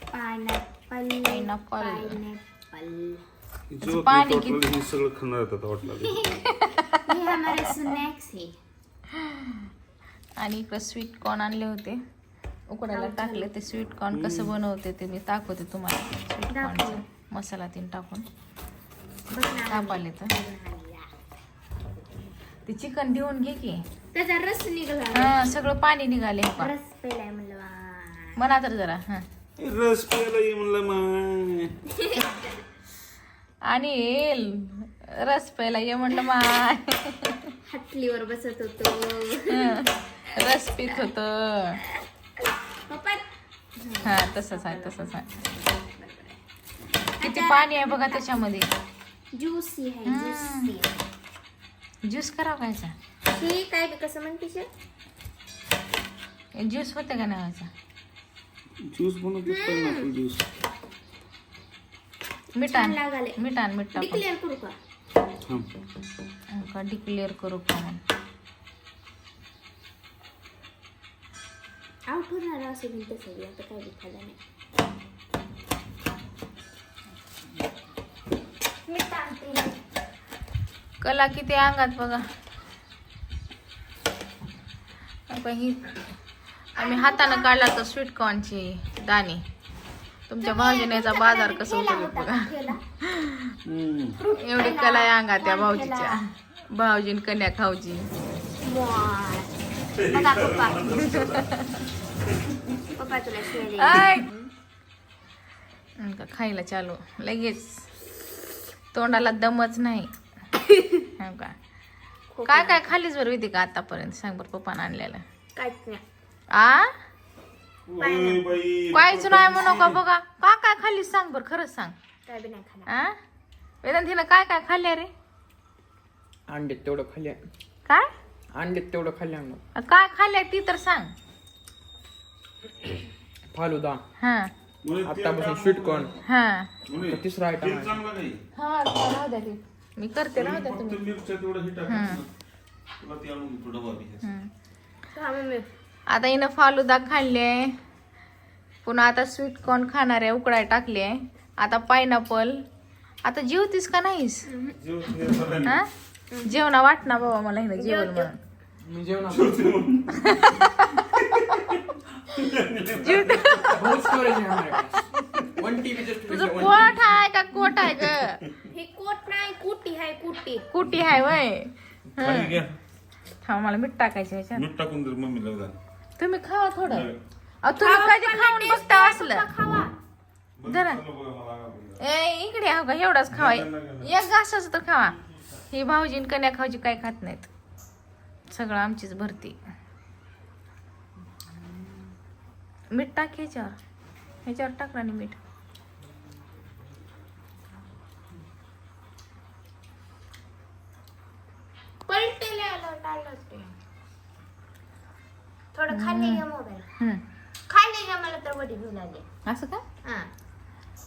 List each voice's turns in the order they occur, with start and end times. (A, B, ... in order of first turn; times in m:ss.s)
0:00.1-0:03.2 A
0:01.2-0:02.2 B
0:03.7-0:06.2 C
0:03.8-0:04.6 B
0:06.4-0:07.0 B
0:07.0-0:08.5 A
0:09.2-0:09.5 B
0:10.4-0:12.0 B
0:12.7-0:18.2 B
0:12.9-0:13.5 A
0:14.1-0:14.5 C
0:16.5-0:17.0 A
0:19.3-0:21.1 A
0:19.7-0:20.3 B
0:22.6-0:23.8 B
0:24.1-0:25.4 A
0:25.1-0:26.7 B
0:26.6-0:28.3 A
0:28.4-0:29.2 B
0:29.6-0:31.7 C
0:31.9-0:32.5 A
0:33.7-0:37.5 B
0:37.7-0:39.8 A
0:39.5-0:41.8 B
0:42.9-0:43.2 A
0:43.8-0:46.4 A
0:44.0-0:45.3 B
0:47.2-0:48.2 A
0:47.2-0:48.7 B
0:49.3-0:50.9 A
0:50.0-0:50.7 B
0:52.0-0:52.9 B
0:53.3-0:54.7 A
0:56.6-0:57.7 B
0:58.9-1:00.5 C
0:59.4-1:00.1 A
1:02.6-1:04.2 B
1:02.7-1:03.4 A
1:03.9-1:04.7 A
1:06.5-1:08.0 B
1:12.1-1:14.4 A
1:18.9-1:19.8 A
1:21.0-1:22.2 B
1:25.3-1:25.9 B
1:26.8-1:27.7 A
1:26.8-1:29.4 B
1:30.3-1:32.5 B
1:30.4-1:32.8 A
1:33.0-1:33.5 B
1:33.6-1:34.2 C
1:34.2-1:36.2 A
1:34.3-1:38.1 B
1:38.6-1:39.5 A
1:39.9-1:41.5 C
1:40.1-1:41.0 A
1:43.0-1:44.5 A
1:43.8-1:44.3 B
1:46.0-1:47.8 B
1:48.9-1:50.1 B
1:50.9-1:51.5 B
1:52.3-1:52.9 A
1:52.5-1:55.2 B
1:55.6-1:56.0 A
1:56.5-1:56.9 B
1:57.9-2:00.0 C
1:58.0-1:58.5 A
1:58.9-2:01.9 B
2:02.2-2:02.9 A
2:02.9-2:03.2 B
2:03.8-2:05.1 B
2:06.5-2:07.4 D
2:08.5-2:09.6 D
2:09.8-2:11.1 B
2:13.5-2:14.0 D
2:14.2-2:14.5 B
2:14.8-2:16.1 C
2:15.0-2:16.1 D
2:16.2-2:16.7 B
2:16.9-2:18.4 C
2:17.0-2:18.0 D
2:18.6-2:21.0 B
2:20.3-2:22.3 C
2:21.9-2:22.2 B
2:23.0-2:24.3 C
2:24.2-2:24.5 B
2:25.1-2:25.7 A
2:26.1-2:27.7 B
2:28.8-2:32.6 B
2:33.2-2:34.4 B
2:34.5-2:34.8 A
2:34.8-2:35.8 C
2:36.4-2:38.3 B
2:37.7-2:38.3 A
2:38.8-2:39.8 D
2:39.3-2:40.2 C
2:40.2-2:41.4 B
2:41.2-2:43.6 C
2:43.0-2:44.0 B
2:43.7-2:47.0 D
2:46.2-2:48.4 B
2:48.7-2:50.6 A
2:50.7-2:52.6 B
2:52.2-2:52.7 C
2:53.4-2:54.6 B
2:54.5-2:55.8 C
2:56.2-2:57.1 B
2:56.9-2:57.2 C
2:57.6-2:59.5 B
2:57.8-2:59.9 A
3:00.6-3:02.0 C
3:00.7-3:01.0 B
3:02.0-3:07.5 B
3:03.3-3:04.1 C
3:08.5-3:09.6 B
3:12.9-3:13.8 B
3:14.4-3:15.4 B
3:22.1-3:23.7 A
3:25.7-3:26.8 A
3:25.9-3:26.4 B
3:27.7-3:29.2 A
3:29.4-3:29.8 B
3:30.0-3:30.3 A